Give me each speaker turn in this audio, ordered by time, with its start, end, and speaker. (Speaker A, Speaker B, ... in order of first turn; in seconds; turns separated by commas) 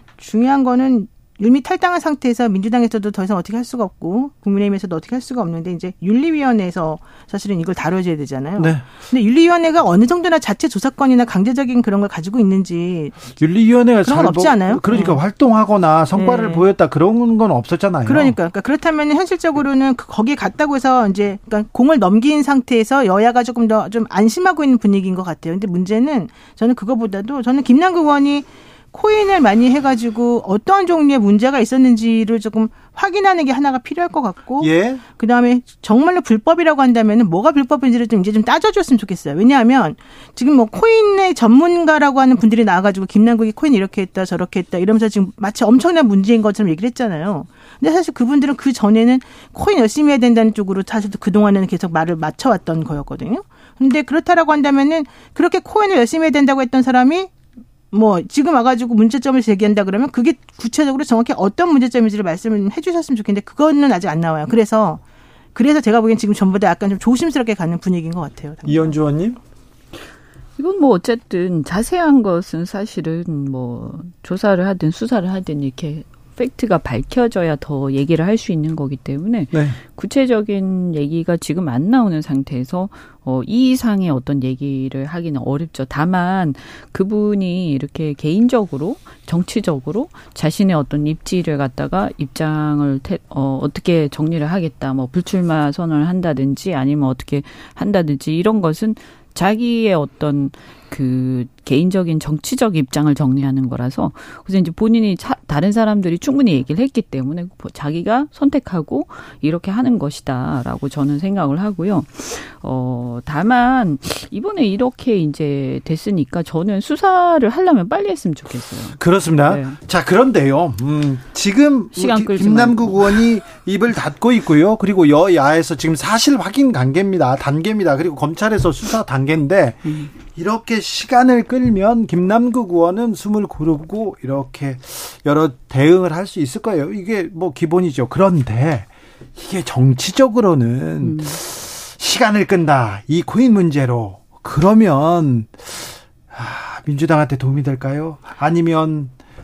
Speaker A: 0.2-13.3, Speaker B: 8.6-8.8, Speaker B: 13.3-18.4, Speaker A: 14.0-15.2, Speaker A: 16.1-16.7, Speaker A: 18.1-57.3, Speaker B: 34.6-35.0, Speaker A: 57.9-65.0, Speaker A: 65.5-68.9, Speaker B: 68.6-69.4, Speaker C: 70.6-119.8, Speaker B: 119.0-149.1, Speaker C: 122.0-123.3, Speaker C: 141.0-141.4